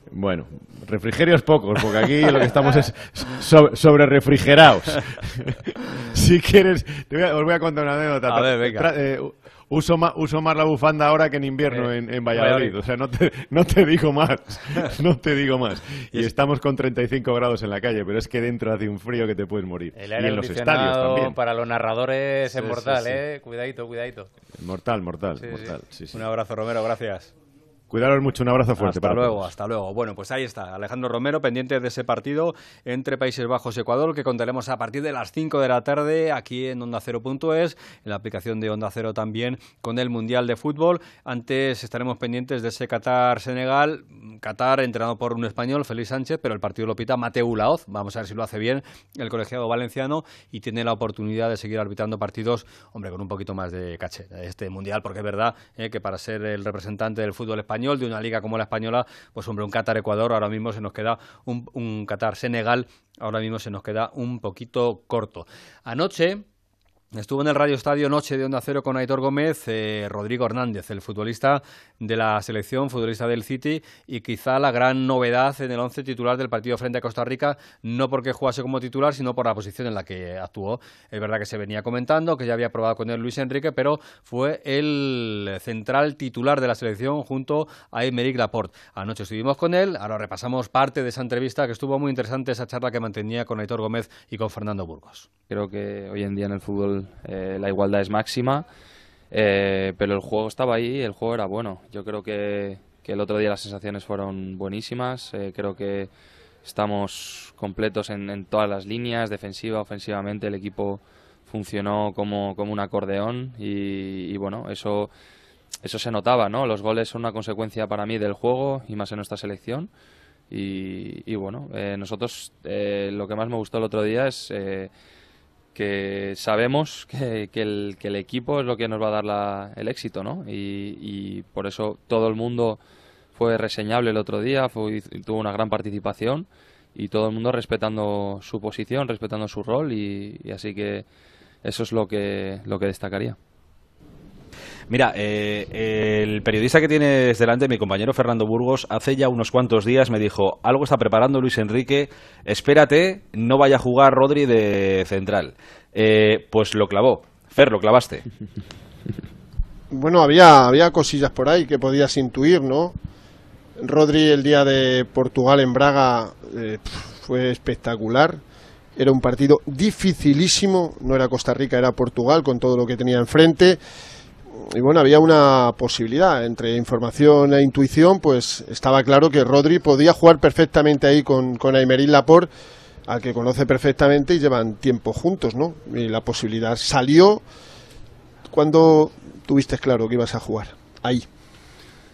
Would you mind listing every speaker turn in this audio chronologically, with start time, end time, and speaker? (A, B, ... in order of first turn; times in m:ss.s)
0:00.1-0:21.4 A
0:08.3-0:08.9 B
0:11.7-0:12.7 C
0:19.9-0:24.3 C
0:22.6-0:23.0 B
0:24.6-0:26.2 A
0:25.4-0:25.8 C
0:26.1-0:27.3 B
0:27.9-0:29.5 A
0:28.8-1:06.4 B
1:07.1-1:35.3 B
1:35.5-1:38.7 D
1:39.3-1:46.1 D
1:46.6-1:55.1 D
1:55.8-1:59.9 D
2:00.5-2:04.9 D
2:05.7-2:12.8 D
2:13.4-2:21.1 D
2:21.6-2:23.4 D
2:24.9-2:38.3 E
2:39.9-2:43.0 F
2:43.8-2:48.4 F
2:49.0-2:53.8 F
2:54.6-3:02.5 F
3:03.1-3:07.4 F
3:08.5-3:11.3 F